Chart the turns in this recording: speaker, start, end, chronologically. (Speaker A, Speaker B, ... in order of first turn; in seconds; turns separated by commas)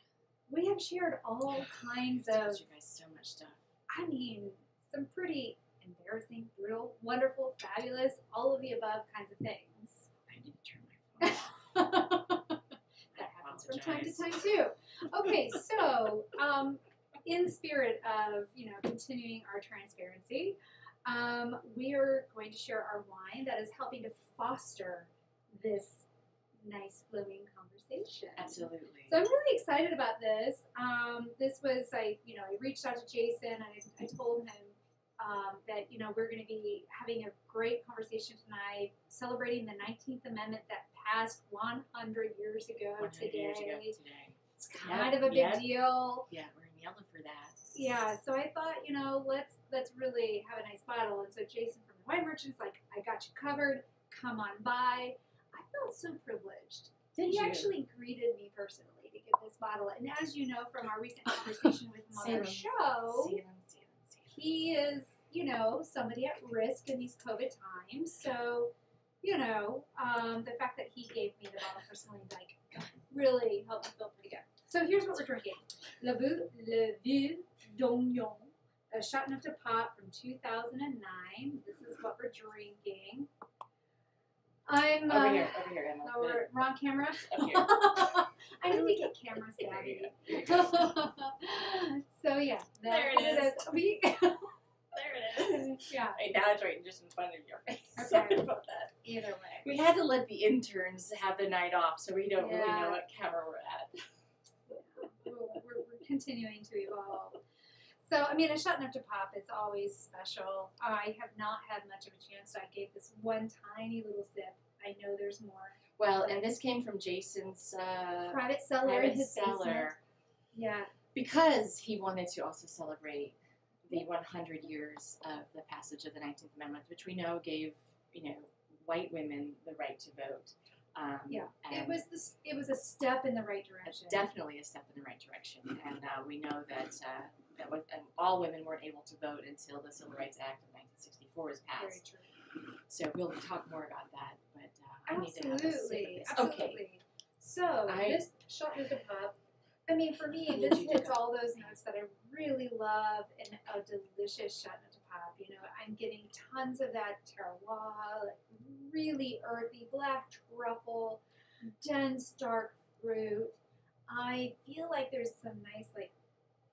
Speaker A: 0.5-2.6, Speaker B: 1.5-3.6, Speaker A: 3.9-10.1, Speaker B: 10.3-11.6, Speaker A: 11.2-12.6, Speaker B: 13.1-14.3, Speaker A: 13.1-26.1, Speaker A: 26.6-44.0, Speaker B: 28.4-29.2, Speaker B: 43.0-47.7, Speaker A: 44.6-46.3, Speaker A: 47.7-63.4, Speaker B: 57.1-57.7, Speaker B: 62.1-64.4, Speaker A: 64.3-83.3, Speaker B: 72.7-73.0, Speaker A: 84.6-94.5, Speaker B: 85.0-86.5, Speaker B: 87.1-90.9, Speaker B: 92.8-93.7, Speaker B: 94.9-99.0, Speaker A: 95.4-96.2, Speaker A: 98.0-98.5, Speaker A: 99.0-99.8, Speaker B: 99.5-104.0, Speaker A: 102.4-103.0, Speaker A: 104.7-107.4, Speaker A: 108.0-116.4, Speaker B: 116.0-120.0, Speaker A: 118.2-119.9, Speaker A: 120.5-120.9, Speaker B: 121.1-132.0, Speaker A: 131.3-134.2, Speaker B: 133.8-142.0, Speaker A: 141.8-142.3, Speaker B: 142.9-146.8, Speaker A: 145.1-163.6, Speaker B: 147.8-148.2, Speaker B: 150.4-151.2, Speaker A: 164.1-166.1